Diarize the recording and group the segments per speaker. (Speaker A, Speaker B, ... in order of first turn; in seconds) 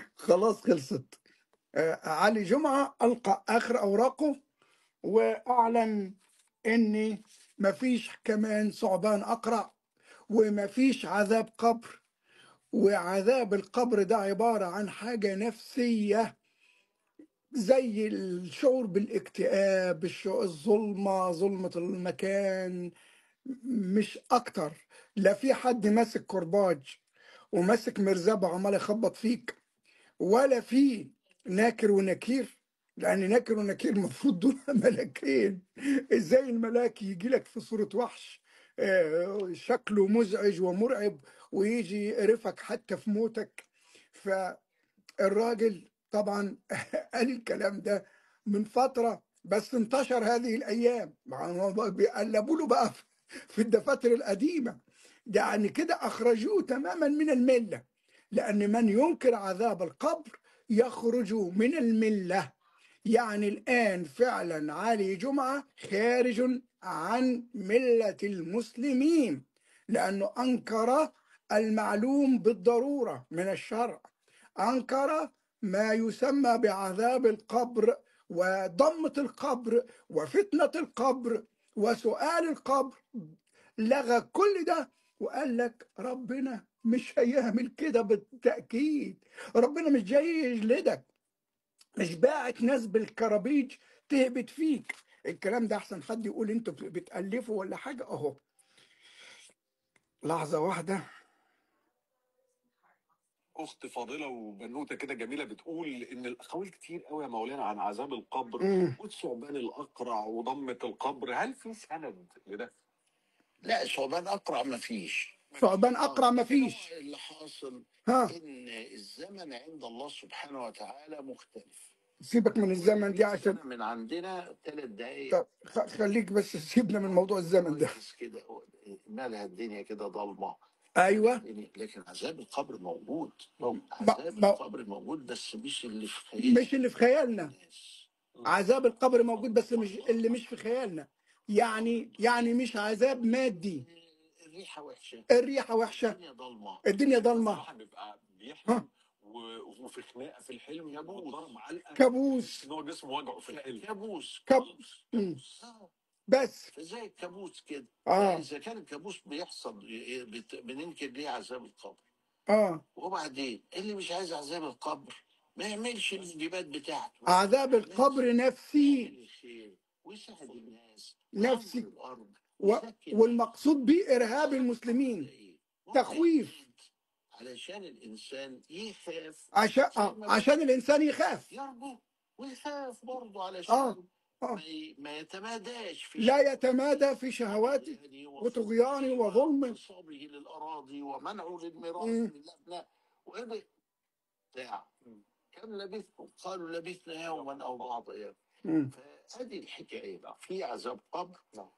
Speaker A: 0.2-1.2, 1.8-4.4, 5.0-6.2, 6.7-9.7, 10.3-12.0, 12.7-16.3, 17.6-22.9, 23.5-27.0, 27.5-29.6, 30.2-44.6, 45.2-54.8, 55.3-62.5, 63.1-74.1, 74.6-91.1, 92.0-98.4, 100.2-101.0, 108.6-109.0, 115.6-116.9, 118.1-118.3, 122.2-123.6, 125.3-127.9, 131.0-131.4, 134.0-134.6, 136.4-137.5, 138.4-143.8, 145.3-146.2, 146.8-147.6, 151.9-152.6, 154.5-155.4, 156.3-156.7, 158.1-158.4, 162.5-162.8, 167.3-169.1, 171.3-171.8, 172.6-175.3, 175.9-176.6, 179.6-181.5, 183.7-184.6, 186.2-189.8, 192.0-192.3, 198.7-198.9
Speaker B: 103.6-112.7, 147.2-153.8
Speaker C: 113.6-121.9, 122.7-125.4, 127.1-130.6, 131.1-136.8, 137.3-138.1, 139.1-140.6, 141.7-142.5, 143.2-145.3, 145.8-147.0, 150.9-151.5, 153.5-155.9, 156.7-162.0, 163.0-168.3, 168.8-173.4, 174.2-176.8, 177.3-180.5, 181.5-186.7, 187.5-193.7, 194.6-194.9, 195.5-198.3, 198.9-201.4